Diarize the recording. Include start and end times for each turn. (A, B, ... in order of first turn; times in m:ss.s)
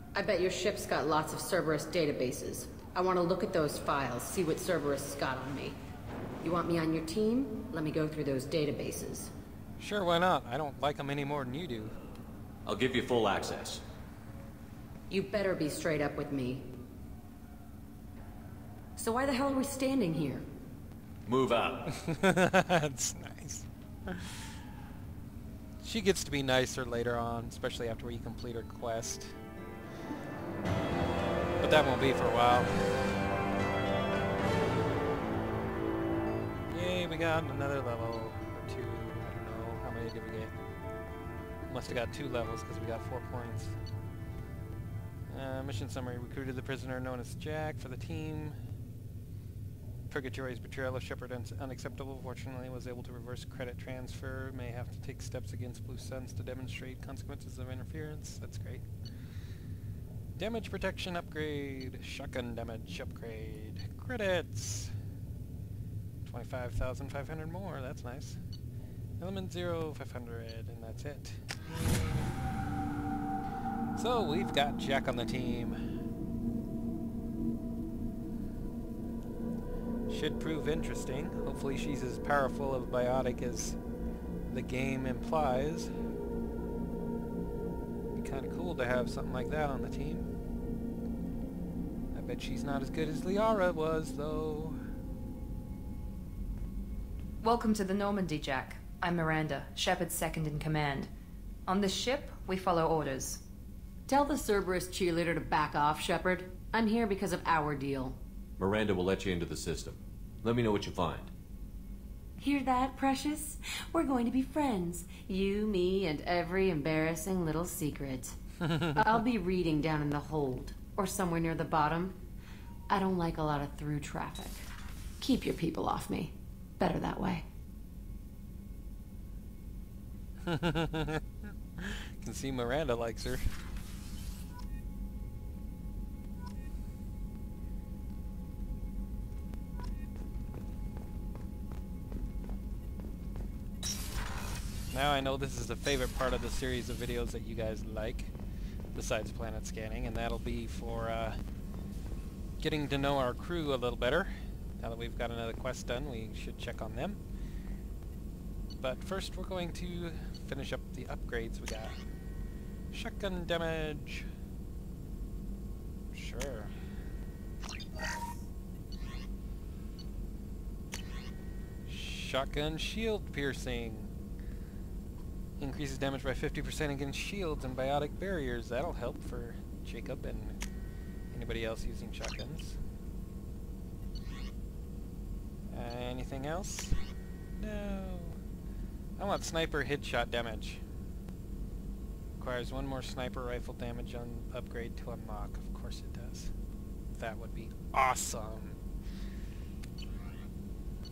0:00.1-0:05.8 A
0:06.4-0:09.3 A
0:09.8-0:12.0 B
0:12.6-0:13.8 C
0:15.1-0:16.7 A
0:19.0-0:20.4 A
0:21.2-0:21.8 C
0:21.9-0:24.5 B
0:25.8-0:29.3 B
0:31.6-0:33.0 B
0:36.7-0:40.5 B
0:41.7-0:43.7 B
0:45.3-0:48.6 B
0:50.1-0:58.8 B
1:00.4-1:04.9 B
1:06.2-1:08.4 B
1:09.2-1:12.2 B
1:13.9-1:15.8 B
1:20.1-1:23.8 B
1:24.5-1:25.9 B
1:28.1-1:30.3 B
1:32.1-1:34.8 B
1:37.4-1:41.1 D
1:41.7-1:43.4 D
1:44.1-1:48.2 A
1:48.6-1:51.3 C
1:52.4-1:58.4 A
1:58.6-1:58.9 B
1:59.0-2:02.2 A
2:02.9-2:04.6 A
2:05.2-2:07.4 A
2:10.4-2:11.2 B
2:11.8-2:13.5 B
2:24.9-2:28.3 B
2:28.9-2:31.4 B
2:32.6-2:37.2 B
2:38.8-2:42.0 B
2:42.9-2:44.3 B
2:46.1-2:46.7 B
2:51.8-2:54.1 B
2:55.6-3:00.6 B
3:01.3-3:02.8 B
3:05.7-3:07.0 B
3:07.5-3:08.4 B
3:09.2-3:10.8 B
3:12.4-3:16.5 B
3:17.1-3:18.8 B